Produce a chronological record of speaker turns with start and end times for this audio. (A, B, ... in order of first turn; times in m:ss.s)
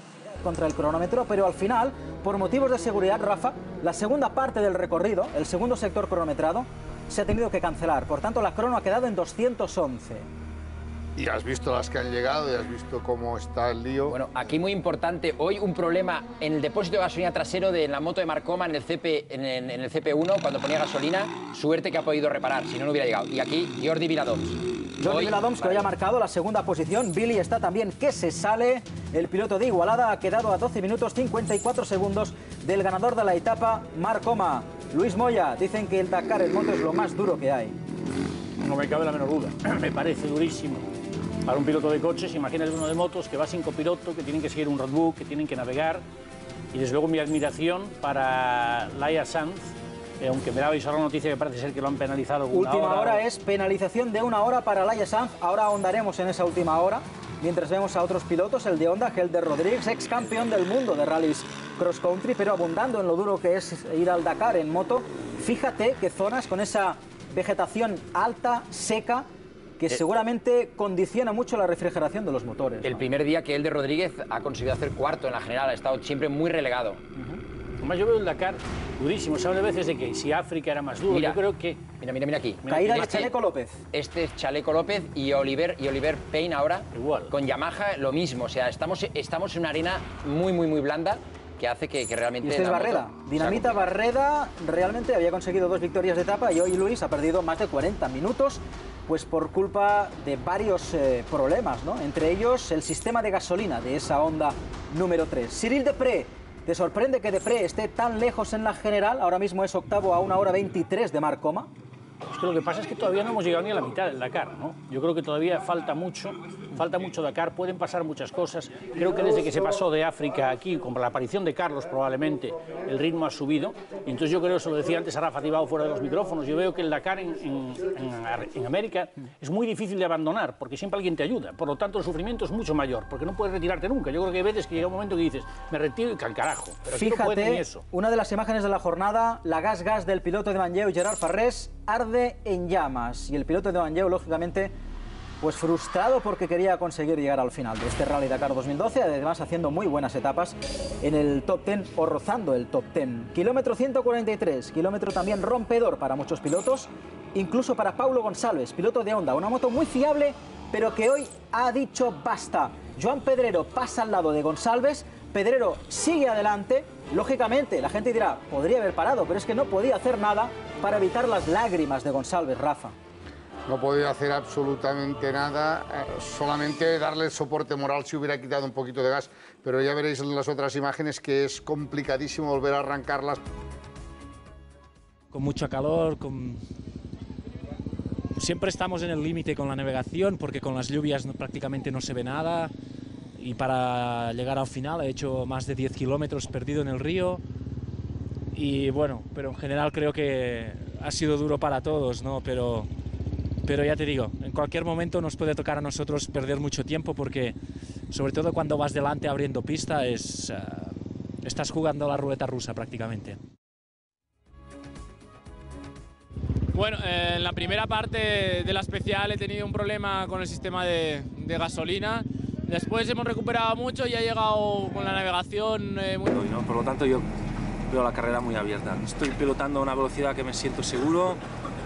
0:00.2-0:10.3 A
0:11.2-0:14.2 B
0:14.1-0:25.8 C
0:25.0-0:37.7 A
0:38.6-0:40.9 D
0:41.4-0:46.0 D
0:46.7-0:53.2 D
0:52.5-1:09.2 A
1:09.8-1:13.0 A
1:12.8-1:17.0 C
1:17.2-1:21.9 D
1:21.1-1:21.4 C
1:22.0-1:23.3 C
1:22.6-1:23.2 D
1:22.7-1:23.8 A
1:23.9-1:33.8 C
1:26.9-1:27.3 D
1:32.4-1:51.7 A
1:52.3-2:17.8 D
2:16.9-2:24.7 A
2:25.4-2:52.9 A
2:53.7-3:03.4 B
3:05.3-3:06.6 E
3:08.4-3:12.7 E
3:13.4-3:17.4 E
3:18.5-3:22.9 E
3:23.6-3:27.6 E
3:28.1-3:33.4 E
3:36.7-3:46.4 F
3:46.3-3:47.3 G
3:47.9-3:51.4 G